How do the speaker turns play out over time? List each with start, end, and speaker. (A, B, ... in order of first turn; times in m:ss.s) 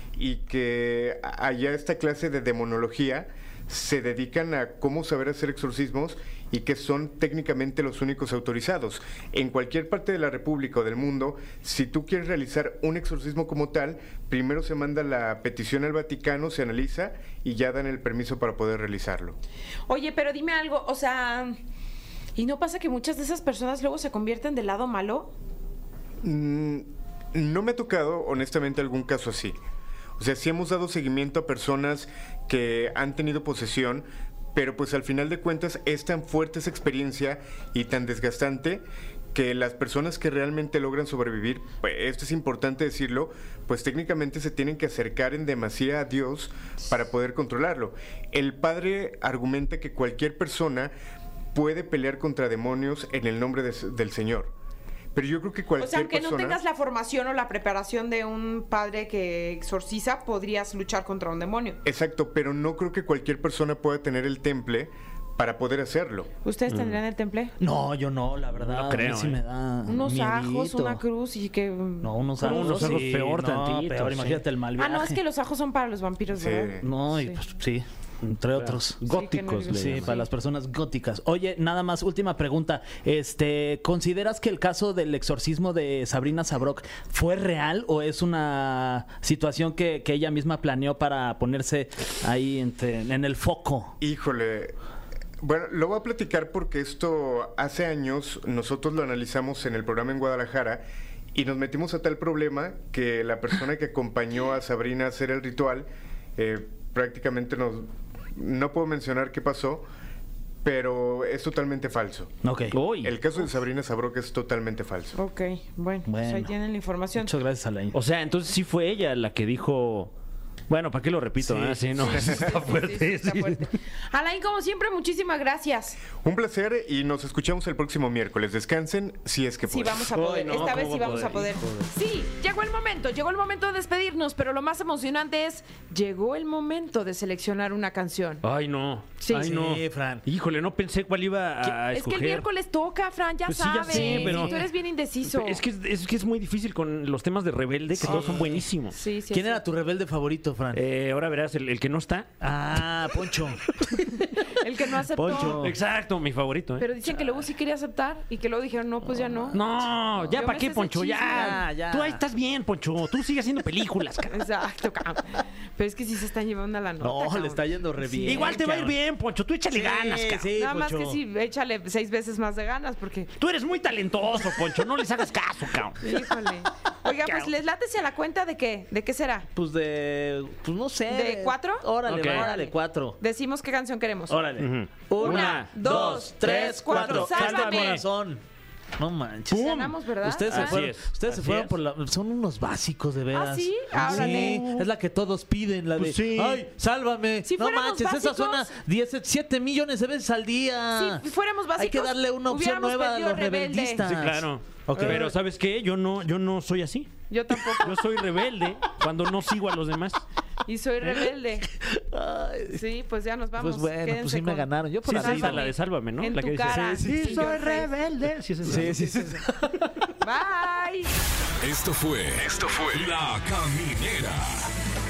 0:00.2-0:19.4 A
0:19.9-0:21.6 B
0:22.4-0:25.3 B
0:26.2-0:29.6 A
0:30.2-0:50.9 A
0:51.5-0:54.5 A
0:55.1-0:56.6 A
0:55.8-1:01.8 B
1:01.8-1:06.3 A
1:06.4-1:07.5 B
1:06.7-1:07.0 C
1:07.6-1:11.0 D
1:08.6-1:09.4 C
1:09.9-1:13.1 B
1:12.0-1:15.2 D
1:12.4-1:14.4 C
1:14.8-1:17.4 B
1:16.3-1:16.8 A
1:16.8-1:19.0 D
1:18.5-1:20.1 C
1:19.1-1:20.3 B
1:19.7-1:33.9 D
1:34.0-1:34.7 A
1:35.4-1:40.8 A
1:41.3-1:49.8 A
1:50.6-1:52.3 A
1:52.4-1:52.8 D
1:52.7-1:53.1 C
1:53.0-1:55.2 A
1:55.1-1:57.3 B
1:56.1-1:56.5 D
1:57.2-1:58.0 D
1:57.9-2:00.1 C
2:00.7-2:03.7 C
2:01.4-2:02.0 D
2:02.0-2:06.0 B
2:02.1-2:02.5 A
2:06.1-2:10.1 A
2:09.7-2:18.4 B
2:10.0-2:11.8 C
2:18.4-2:22.4 C
2:19.3-2:20.2 D
2:21.9-2:25.6 B
2:23.4-2:24.7 C
2:23.9-2:24.7 D
2:25.2-2:29.0 C
2:27.9-2:28.6 D
2:28.9-2:29.6 B
2:29.3-2:30.8 D
2:30.7-2:32.3 C
2:32.4-2:33.7 D
2:34.5-2:35.6 B
2:35.0-2:35.8 D
2:35.3-2:36.9 C
2:36.8-2:39.6 B
2:39.3-2:39.6 D
2:39.5-2:44.4 C
2:40.3-2:41.6 B
2:41.3-2:42.2 D
2:44.3-2:48.7 B
2:47.0-2:49.0 D
2:48.2-2:50.5 C
2:49.7-2:51.2 D
2:50.5-2:53.3 B
2:53.4-2:56.0 C
2:56.0-2:59.5 B
2:57.2-2:57.5 C
2:59.5-3:03.2 D
3:01.1-3:04.4 B
3:02.0-3:02.5 C
3:04.3-3:08.4 D
3:04.6-3:08.0 C
3:05.2-3:08.0 B
3:09.0-3:21.2 D
3:09.5-3:09.9 C
3:09.5-3:10.8 B
3:10.5-3:11.7 C
3:13.3-3:14.6 B
3:13.9-3:14.8 C
3:16.0-3:16.6 C
3:17.4-3:18.7 B
3:20.9-3:24.0 B
3:21.8-3:25.3 D
3:24.0-3:27.1 C
3:24.9-3:25.3 B
3:27.3-3:28.0 B
3:27.8-3:30.2 C
3:30.6-3:31.7 B
3:31.7-3:32.8 D
3:32.7-3:37.9 B
3:33.6-3:35.7 D
3:35.0-3:39.4 C
3:36.8-3:37.5 D
3:38.6-3:39.8 D
3:40.2-3:41.1 B
3:41.6-3:44.6 E